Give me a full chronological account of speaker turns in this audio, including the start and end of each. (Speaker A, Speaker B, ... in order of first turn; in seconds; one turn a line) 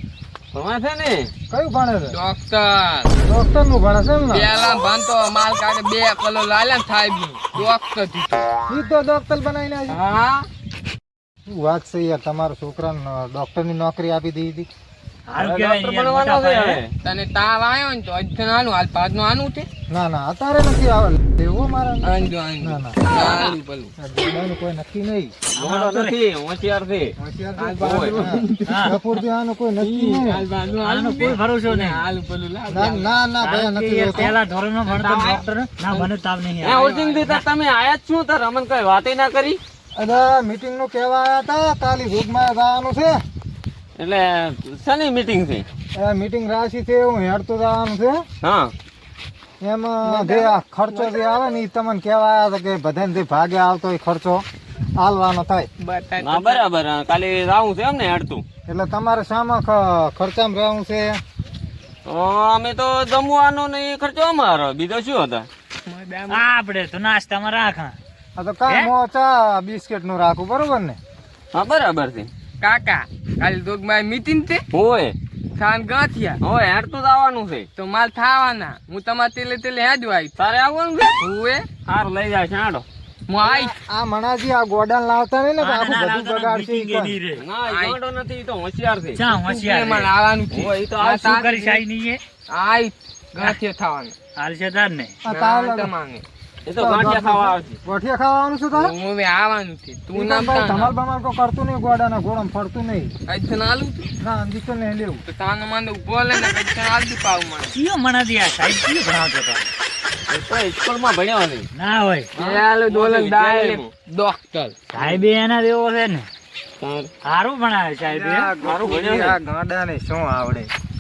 Speaker A: 0.5-1.3
Speaker B: 1.5-2.1
Speaker C: 2.1-3.1
Speaker B: 3.2-4.6
Speaker C: 4.3-8.5
Speaker B: 8.7-10.0
Speaker C: 9.9-10.5
Speaker B: 11.5-14.7
Speaker D: 15.3-16.8
Speaker A: 15.4-16.9
Speaker C: 17.0-19.7
Speaker B: 19.9-23.0
Speaker C: 22.0-23.9
Speaker A: 23.1-23.6
Speaker B: 24.0-25.3
Speaker D: 25.5-26.2
Speaker A: 25.6-27.1
Speaker B: 27.2-30.4
Speaker C: 27.6-29.2
Speaker A: 27.8-28.1
Speaker D: 28.7-29.0
Speaker C: 29.8-33.1
Speaker D: 30.8-32.0
Speaker B: 32.7-34.4
Speaker D: 33.4-37.4
Speaker C: 34.9-36.1
Speaker A: 36.6-39.6
Speaker C: 36.7-37.2
Speaker B: 40.0-43.2
Speaker A: 44.0-45.7
Speaker B: 46.0-48.2
Speaker A: 48.4-48.7
Speaker B: 49.6-54.5
Speaker C: 50.0-51.2
Speaker B: 55.0-55.7
Speaker C: 55.8-56.7
Speaker A: 56.2-58.4
Speaker B: 58.7-61.2
Speaker A: 62.1-65.5
Speaker C: 65.9-66.5
Speaker D: 66.3-68.0
Speaker B: 68.4-71.0
Speaker A: 71.5-72.3
Speaker C: 72.6-74.6
Speaker A: 74.7-75.2
Speaker C: 75.6-76.4
Speaker A: 76.4-77.7
Speaker C: 77.8-80.3
Speaker A: 80.4-81.2
Speaker C: 81.2-81.7
Speaker A: 81.8-82.8
Speaker C: 83.3-83.7
Speaker B: 83.4-87.2
Speaker D: 85.6-87.4
Speaker A: 87.4-89.2
Speaker C: 87.7-88.0
Speaker D: 89.2-90.1
Speaker C: 89.3-91.8
Speaker A: 90.5-91.3
Speaker D: 91.2-92.2
Speaker C: 92.5-94.2
Speaker D: 94.4-95.2
Speaker B: 95.2-95.9
Speaker C: 95.3-96.2
Speaker A: 96.7-97.8
Speaker B: 96.7-98.9
Speaker C: 98.7-100.9
Speaker B: 100.1-103.1
Speaker C: 103.3-104.1
Speaker B: 104.2-105.2
Speaker C: 105.3-107.8
Speaker D: 107.7-109.7
Speaker A: 110.3-111.7
Speaker D: 111.8-112.3
Speaker A: 112.4-113.9
Speaker C: 112.4-114.8
Speaker D: 114.9-116.3
Speaker A: 115.0-115.2
Speaker A: 116.8-117.1
Speaker D: 117.2-118.5
Speaker B: 118.1-120.7
Speaker A: 118.6-119.4